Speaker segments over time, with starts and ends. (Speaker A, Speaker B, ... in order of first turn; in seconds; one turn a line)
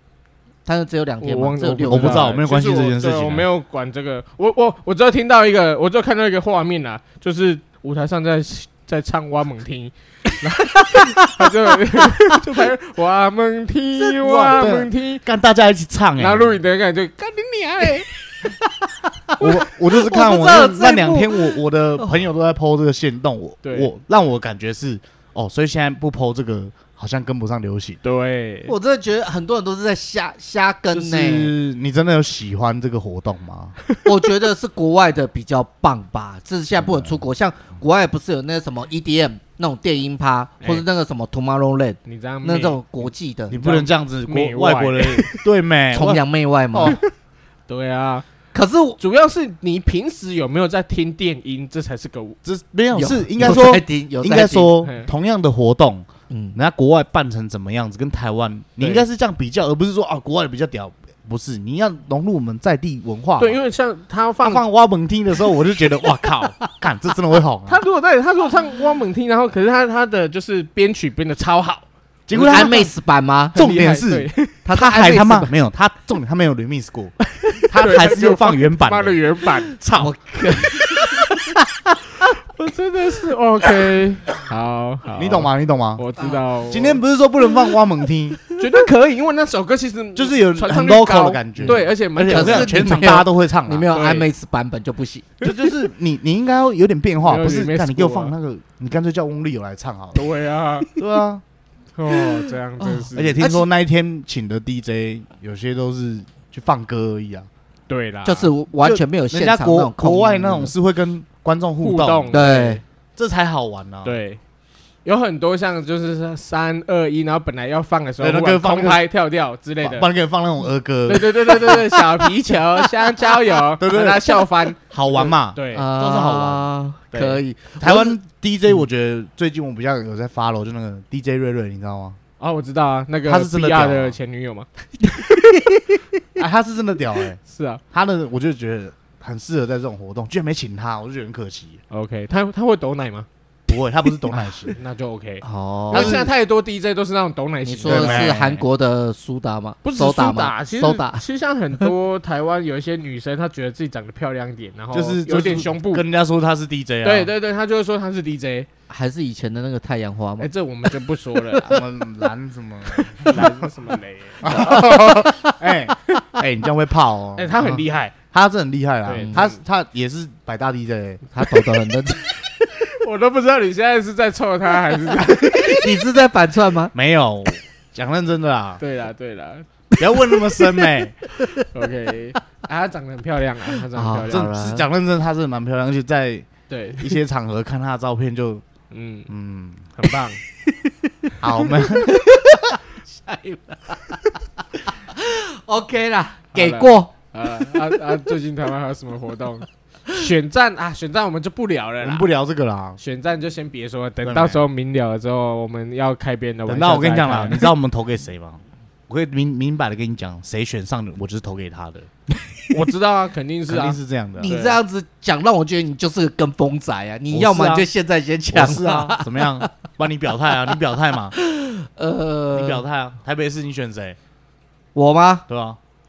Speaker A: 0.7-2.3
Speaker B: 1.2-15.2
Speaker C: 1.9-3.5
Speaker A: 10.3-12.0
Speaker C: 14.0-16.6
Speaker B: 16.2-18.5
Speaker A: 18.5-22.2
Speaker C: 19.4-28.0
Speaker B: 23.6-23.9
Speaker B: 28.0-28.7
Speaker A: 28.7-31.5
Speaker C: 30.9-33.8
Speaker A: 34.0-43.6
Speaker C: 36.8-37.2
Speaker B: 42.0-45.4
Speaker C: 43.5-46.2
Speaker A: 45.9-47.0
Speaker C: 46.7-47.0
Speaker B: 46.8-47.1
Speaker B: 47.7-48.3
Speaker A: 48.5-49.0
Speaker B: 49.0-52.4
Speaker C: 52.5-63.6
Speaker A: 52.9-54.7
Speaker B: 54.8-55.1
Speaker A: 56.3-56.6
Speaker B: 63.4-64.6
Speaker C: 64.4-67.8
Speaker A: 66.4-66.7
Speaker B: 67.7-71.9
Speaker C: 72.3-72.9
Speaker A: 72.3-73.6
Speaker B: 72.4-72.9
Speaker B: 73.5-74.6
Speaker C: 73.5-77.2
Speaker A: 74.7-75.5
Speaker B: 77.5-79.8
Speaker C: 77.7-80.1
Speaker A: 80.0-81.8
Speaker B: 82.5-87.0
Speaker C: 85.1-86.0
Speaker A: 86.2-86.5
Speaker C: 86.7-88.4
Speaker B: 88.6-93.1
Speaker C: 90.2-93.9
Speaker A: 91.6-95.3
Speaker B: 93.9-94.3
Speaker C: 95.4-100.2
Speaker B: 97.2-98.3
Speaker B: 100.2-100.9
Speaker C: 101.0-101.4
Speaker B: 102.0-103.4
Speaker A: 102.1-103.7
Speaker C: 103.1-107.5
Speaker B: 107.9-108.5
Speaker A: 108.2-110.7
Speaker C: 108.8-112.4
Speaker B: 111.8-112.8
Speaker A: 112.3-112.8
Speaker C: 113.2-114.2
Speaker B: 114.0-114.4
Speaker B: 115.0-120.1
Speaker C: 118.2-119.0
Speaker C: 119.8-121.8
Speaker B: 121.1-125.9
Speaker A: 121.7-122.0
Speaker C: 123.8-126.7
Speaker A: 125.7-128.2
Speaker B: 127.1-127.4
Speaker C: 127.8-132.2
Speaker B: 132.4-134.7
Speaker C: 133.2-134.2
Speaker A: 135.0-136.0
Speaker C: 136.4-137.4
Speaker B: 137.5-137.8
Speaker C: 137.9-141.8
Speaker B: 141.9-143.3
Speaker C: 143.7-144.8
Speaker B: 144.8-148.3
Speaker A: 145.4-146.2
Speaker C: 145.9-146.3
Speaker A: 147.6-151.2
Speaker C: 147.8-148.6
Speaker B: 149.8-156.1
Speaker C: 154.9-157.3
Speaker B: 157.0-158.7
Speaker A: 158.9-160.5
Speaker B: 160.4-161.8
Speaker A: 161.3-161.7
Speaker C: 161.6-163.6
Speaker B: 163.2-164.9
Speaker C: 164.4-167.6
Speaker A: 164.5-165.6
Speaker B: 167.4-168.2
Speaker C: 168.3-171.2
Speaker B: 169.1-169.6
Speaker A: 169.2-169.4
Speaker A: 171.3-172.4
Speaker B: 172.7-175.8
Speaker A: 175.3-176.9
Speaker C: 176.9-178.8
Speaker B: 178.8-179.7
Speaker C: 180.0-181.2
Speaker A: 181.4-181.7
Speaker B: 181.7-184.5
Speaker A: 183.9-184.8
Speaker C: 184.3-188.6
Speaker B: 186.7-187.2
Speaker B: 188.9-189.3
Speaker C: 189.3-189.9
Speaker B: 190.0-190.4
Speaker A: 190.7-191.3
Speaker C: 191.4-192.6
Speaker A: 192.0-194.4
Speaker A: 194.9-198.2
Speaker B: 196.5-202.3
Speaker C: 202.0-203.0
Speaker B: 203.0-207.7
Speaker C: 204.2-204.6
Speaker C: 206.7-212.1
Speaker B: 212.7-214.8
Speaker C: 213.7-214.5
Speaker A: 214.4-219.7
Speaker C: 217.3-217.9
Speaker C: 218.5-221.3
Speaker A: 221.3-222.8
Speaker C: 222.5-224.2
Speaker A: 224.9-225.4
Speaker C: 225.5-225.8